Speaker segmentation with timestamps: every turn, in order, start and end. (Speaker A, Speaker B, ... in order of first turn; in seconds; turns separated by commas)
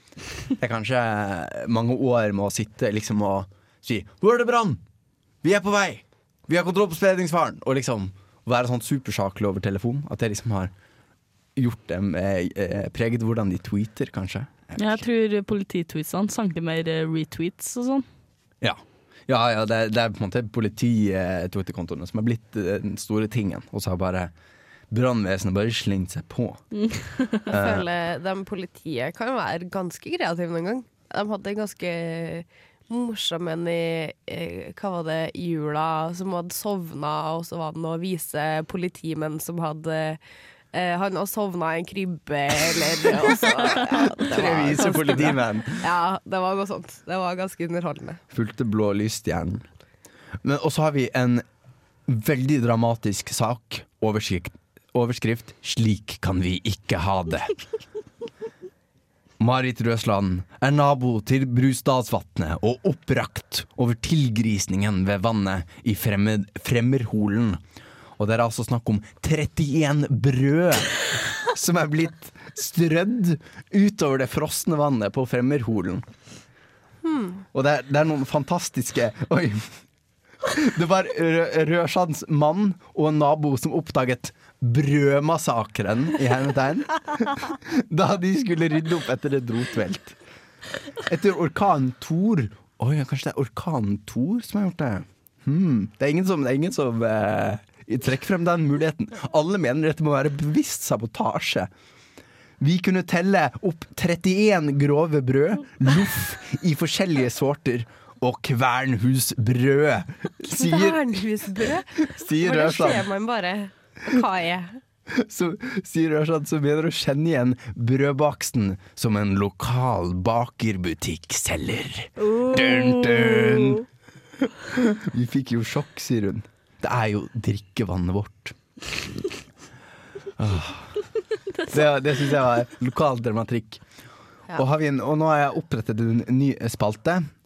Speaker A: 0.6-4.8, Speaker A: 5.4-10.7, Speaker A: 11.6-15.0, Speaker B: 14.8-18.0, Speaker A: 18.6-24.3, Speaker A: 24.9-26.6, Speaker B: 26.8-27.4, Speaker A: 27.5-27.9, Speaker C: 27.5-40.2, Speaker C: 40.7-48.2, Speaker A: 43.2-45.9, Speaker A: 48.3-49.6, Speaker A: 50.4-51.4, Speaker A: 52.1-57.6, Speaker A: 59.4-67.6, Speaker A: 68.2-76.0, Speaker C: 77.0-77.4, Speaker A: 77.5-79.8, Speaker A: 80.4-90.2, Speaker A: 91.0-101.7, Speaker A: 102.6-113.1, Speaker C: 110.5-114.8, Speaker A: 115.1-123.8, Speaker C: 122.2-122.7, Speaker A: 124.4-128.6, Speaker A: 130.4-131.0, Speaker A: 131.7-133.8, Speaker A: 134.5-137.3